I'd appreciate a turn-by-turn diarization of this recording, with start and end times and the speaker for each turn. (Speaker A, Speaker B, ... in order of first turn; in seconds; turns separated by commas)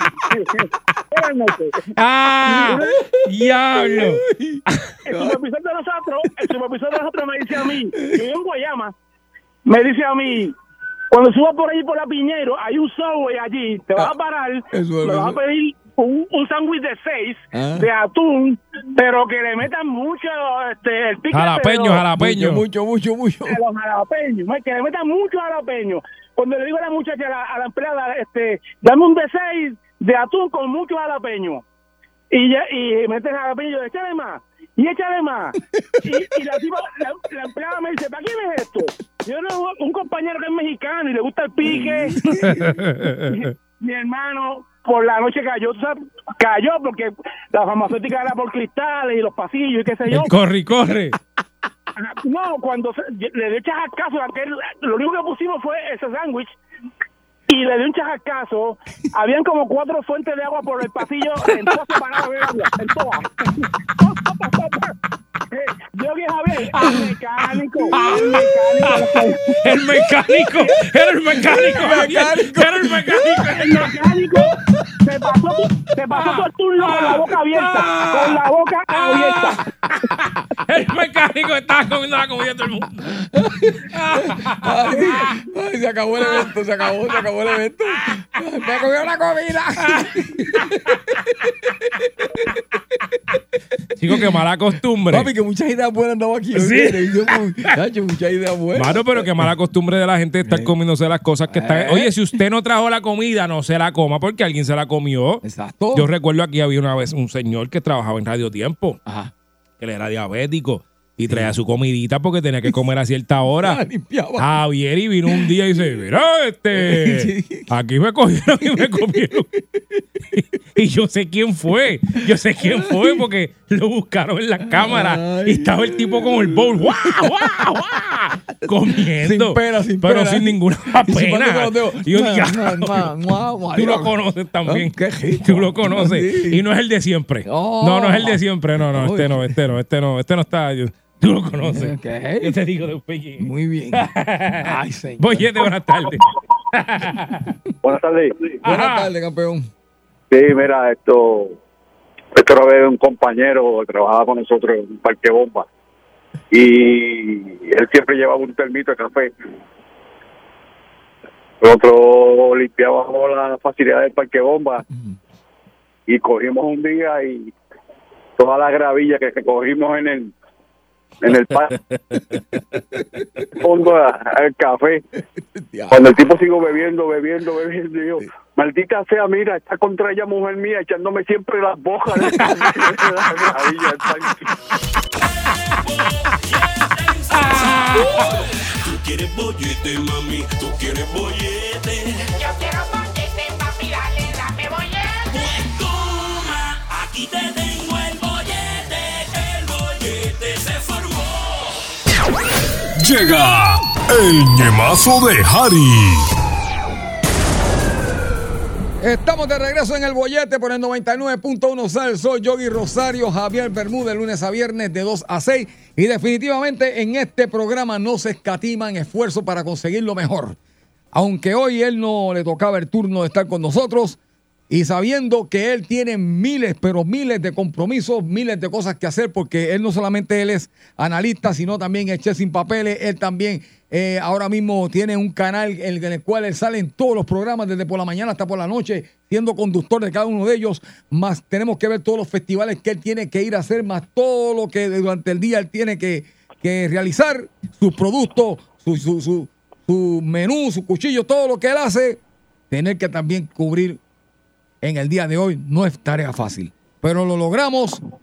Speaker A: 1.1-1.8, Speaker B: 1.9-4.2, Speaker C: 2.5-3.1, Speaker C: 3.8-5.4, Speaker A: 5.1-8.9, Speaker C: 7.9-8.3, Speaker A: 9.7-10.5, Speaker A: 11.1-22.0, Speaker C: 14.7-15.4, Speaker C: 17.5-17.9, Speaker B: 21.3-22.6, Speaker C: 22.1-23.6, Speaker A: 23.5-31.6, Speaker A: 32.3-42.1, Speaker C: 41.6-42.7, Speaker B: 42.2-43.5, Speaker A: 43.8-50.3, Speaker B: 50.1-51.2, Speaker A: 52.0-56.5, Speaker A: 57.5-63.2, Speaker A: 64.0-64.8, Speaker A: 65.5-69.6, Speaker B: 66.7-74.0, Speaker C: 71.5-73.5, Speaker A: 73.6-74.5, Speaker A: 75.0-79.6, Speaker B: 76.1-83.1, Speaker C: 83.2-90.8, Speaker B: 83.9-85.3, Speaker B: 89.8-90.7, Speaker B: 94.0-95.3, Speaker C: 95.1-99.5, Speaker B: 96.5-97.3, Speaker B: 98.7-105.4, Speaker C: 100.4-100.7, Speaker C: 101.5-102.1, Speaker C: 105.4-106.1, Speaker B: 105.9-109.0, Speaker C: 109.0-109.3, Speaker B: 109.8-113.8, Speaker C: 111.3-111.5, Speaker C: 113.6-114.5, Speaker B: 114.4-119.5, Speaker C: 115.2-115.9, Speaker C: 116.7-117.7, Speaker C: 118.6-120.0, Speaker B: 120.3-133.1, Speaker C: 122.6-123.2, Speaker C: 124.6-127.5, Speaker C: 128.9-134.1, Speaker B: 133.7-147.5, Speaker C: 134.6-136.6, Speaker C: 137.4-139.5, Speaker C: 141.6-142.6, Speaker C: 143.4-144.1, Speaker C: 144.6-145.7, Speaker D: 147.8-148.3, Speaker C: 148.6-149.7, Speaker B: 148.6-149.1, Speaker D: 150.3-151.6, Speaker D: 152.3-155.7, Speaker D: 156.5-159.3, Speaker D: 161.6-164.8, Speaker D: 166.1-167.5, Speaker D: 168.4-170.3, Speaker D: 171.2-171.7, Speaker D: 173.6-175.0, Speaker C: 175.4-176.0, Speaker D: 175.9-184.5, Speaker B: 187.3-188.3, Speaker B: 189.1-191.8, Speaker E: 192.7-194.7, Speaker B: 195.4-201.3, Speaker F: 202.9-206.3, Speaker C: 209.0-220.6, Speaker C: 221.1-224.2, Speaker C: 224.7-252.2, Speaker C: 252.7-254.0, Speaker C: 254.8-258.0